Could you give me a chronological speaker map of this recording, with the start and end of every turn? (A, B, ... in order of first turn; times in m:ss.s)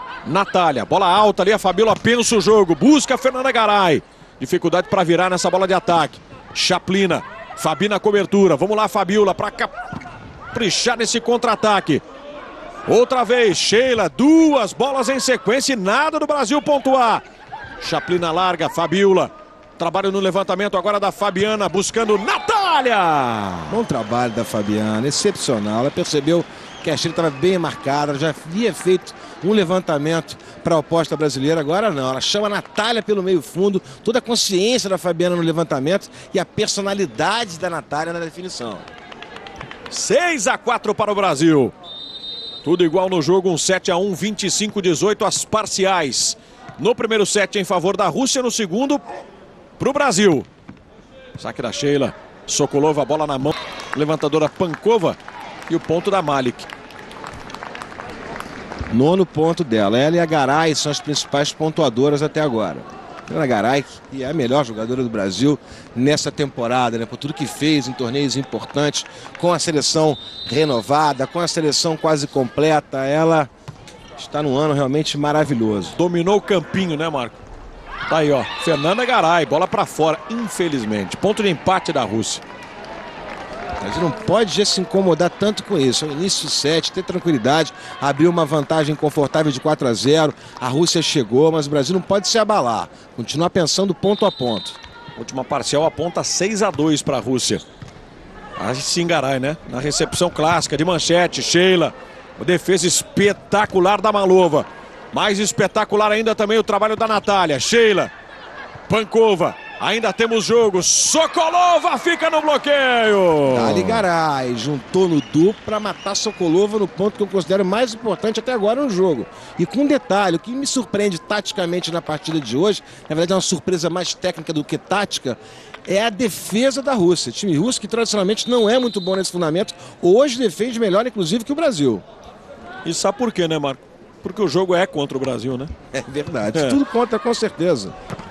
0:00.2-0:09.7 A
0:10.5-0:12.0 A
0:12.9-0:17.2 A
0:17.8-0:23.8 A
0:23.7-0:38.9 B
0:39.9-0:41.7 A
0:42.6-0:49.0 A
0:49.8-0:50.5 A
0:51.4-0:55.2 A
0:55.7-0:56.7 A
0:58.9-1:13.5 B
1:14.2-1:16.0 B
1:16.0-1:17.4 A
1:18.1-1:22.4 A
1:23.8-1:34.8 B
1:35.2-1:37.6 A
1:38.6-1:48.1 A
1:48.9-1:54.0 A
1:53.5-2:12.0 B
2:12.8-2:15.7 A
2:15.9-2:18.0 B
2:16.5-2:16.8 A